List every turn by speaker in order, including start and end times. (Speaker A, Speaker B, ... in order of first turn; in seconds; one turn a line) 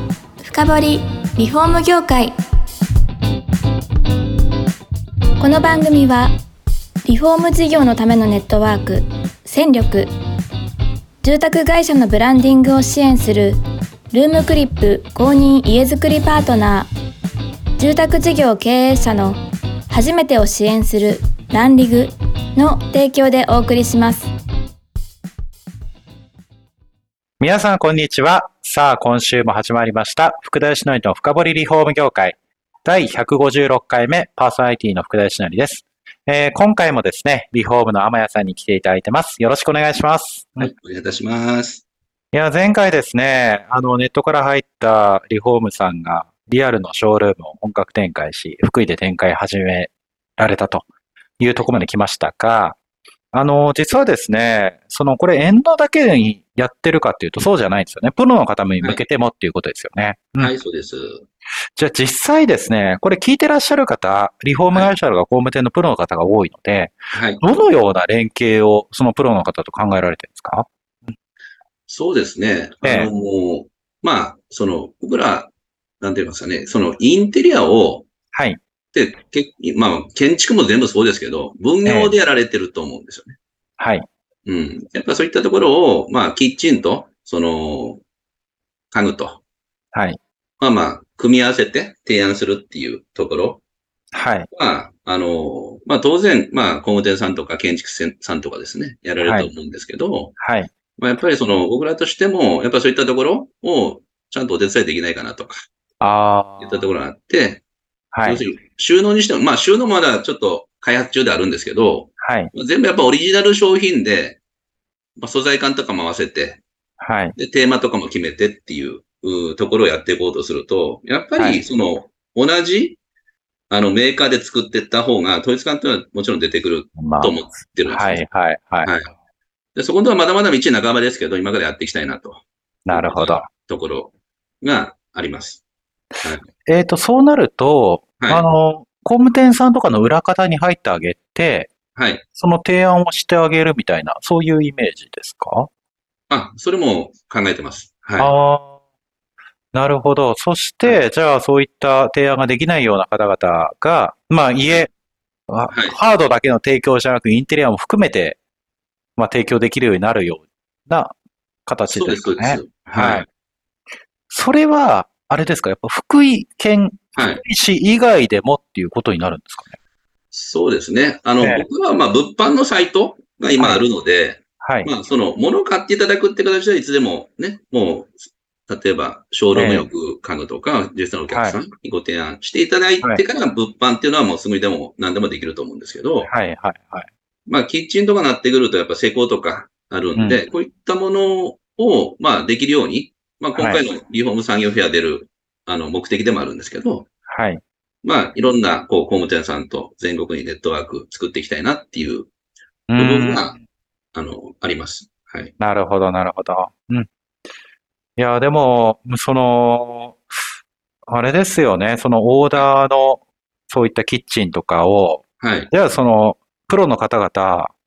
Speaker A: 0.4-2.3
Speaker A: 5.4-6.3
Speaker A: 7.0-10.1
Speaker A: 11.2-13.6
Speaker A: 14.1-16.9
Speaker A: 17.8-24.3
Speaker B: 27.4-40.7
Speaker C: 40.6-41.8
Speaker B: 42.3-50.9
Speaker B: 51.4-52.8
Speaker B: 53.3-60.5
Speaker C: 60.4-61.3
Speaker B: 61.8-70.7
Speaker C: 67.1-67.4
Speaker C: 71.9-78.1
Speaker B: 72.8-73.1
Speaker B: 78.3-78.6
Speaker C: 78.9-83.4
Speaker B: 81.8-82.1
Speaker B: 83.8-84.1
Speaker C: 84.5-88.0
Speaker C: 88.9-89.4
Speaker B: 89.9-90.2
Speaker C: 90.6-93.6
Speaker B: 94.1-94.5
Speaker C: 94.5-100.3
Speaker B: 99.2-99.5
Speaker B: 100.4-100.7
Speaker C: 101.0-105.6
Speaker B: 106.0-106.9
Speaker C: 106.6-107.6
Speaker B: 108.1-108.4
Speaker C: 108.2-114.4
Speaker B: 112.2-112.5
Speaker C: 115.2-116.6
Speaker B: 117.0-117.4
Speaker C: 117.4-123.0
Speaker B: 121.4-121.6
Speaker C: 123.7-128.2
Speaker B: 127.0-129.0
Speaker C: 128.8-129.1
Speaker C: 129.8-135.6
Speaker B: 132.9-133.5
Speaker B: 136.2-141.7
Speaker C: 136.2-136.5
Speaker C: 138.2-138.5
Speaker C: 141.9-142.2
Speaker B: 142.4-145.7
Speaker C: 146.3-148.3
Speaker B: 148.2-148.8
Speaker B: 149.7-154.9
Speaker B: 155.5-158.4
Speaker C: 155.7-156.0
Speaker B: 159.2-161.1
Speaker B: 161.7-163.3
Speaker C: 161.8-163.3
Speaker B: 164.3-169.8
Speaker C: 167.2-167.4
Speaker C: 170.3-186.3
Speaker B: 171.4-171.7
Speaker B: 173.6-173.9
Speaker B: 174.6-174.9
Speaker B: 179.5-179.9
Speaker B: 181.3-181.6
Speaker B: 186.2-187.1
Speaker C: 187.5-197.1
Speaker B: 190.2-190.4
Speaker B: 193.6-193.9
Speaker B: 197.3-197.6
Speaker C: 198.0-202.3
Speaker B: 202.9-203.5
Speaker C: 202.9-203.6
Speaker C: 204.1-205.5
Speaker B: 205.6-207.1
Speaker B: 208.2-210.2
Speaker B: 211.1-217.7
Speaker C: 215.4-215.7